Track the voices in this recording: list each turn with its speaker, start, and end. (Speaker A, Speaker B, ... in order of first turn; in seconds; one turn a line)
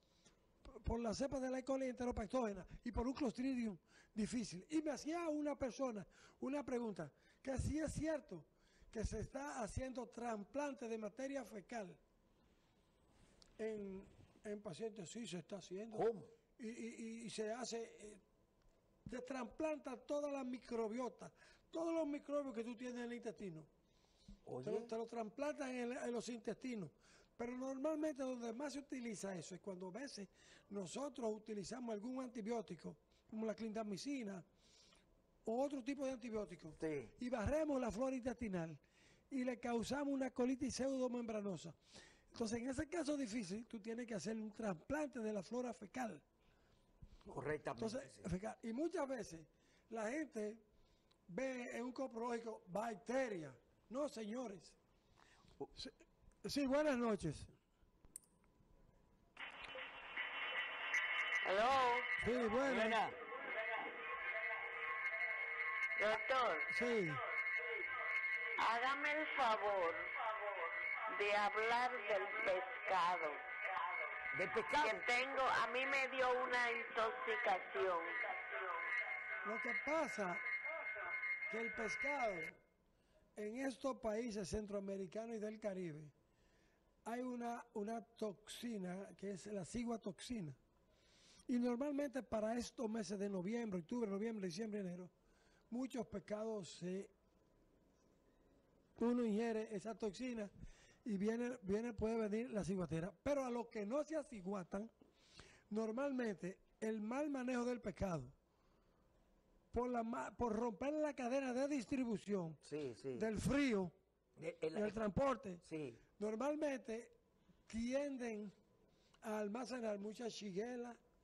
Speaker A: 0.6-12.0
Speaker A: 13.6-18.2
Speaker B: 15.9-16.3
Speaker A: 19.1-23.7
Speaker B: 24.4-24.9
Speaker A: 24.6-34.4
Speaker A: 35.4-41.8
Speaker B: 36.8-37.1
Speaker A: 42.3-46.2
Speaker B: 47.3-48.3
Speaker A: 47.8-50.6
Speaker A: 51.3-54.8
Speaker A: 56.4-57.5
Speaker C: 61.4-62.1
Speaker A: 62.2-63.1
Speaker B: 62.6-63.1
Speaker C: 66.0-66.7
Speaker A: 66.7-67.2
Speaker C: 68.6-70.1
Speaker C: 71.0-73.4
Speaker B: 74.3-75.1
Speaker C: 74.8-78.5
Speaker A: 79.4-80.4
Speaker A: 81.5-82.6
Speaker A: 83.3-86.1
Speaker A: 87.0-90.6
Speaker A: 91.5-95.1
Speaker A: 95.7-97.1
Speaker A: 99.0-100.5
Speaker A: 101.0-104.9
Speaker A: 105.7-108.3
Speaker A: 109.7-112.6
Speaker B: 112.6-113.3
Speaker A: 113.1-113.9
Speaker B: 114.4-115.0
Speaker A: 114.7-115.6
Speaker B: 115.6-116.0
Speaker A: 116.2-117.1
Speaker A: 117.7-118.5
Speaker A: 119.2-121.0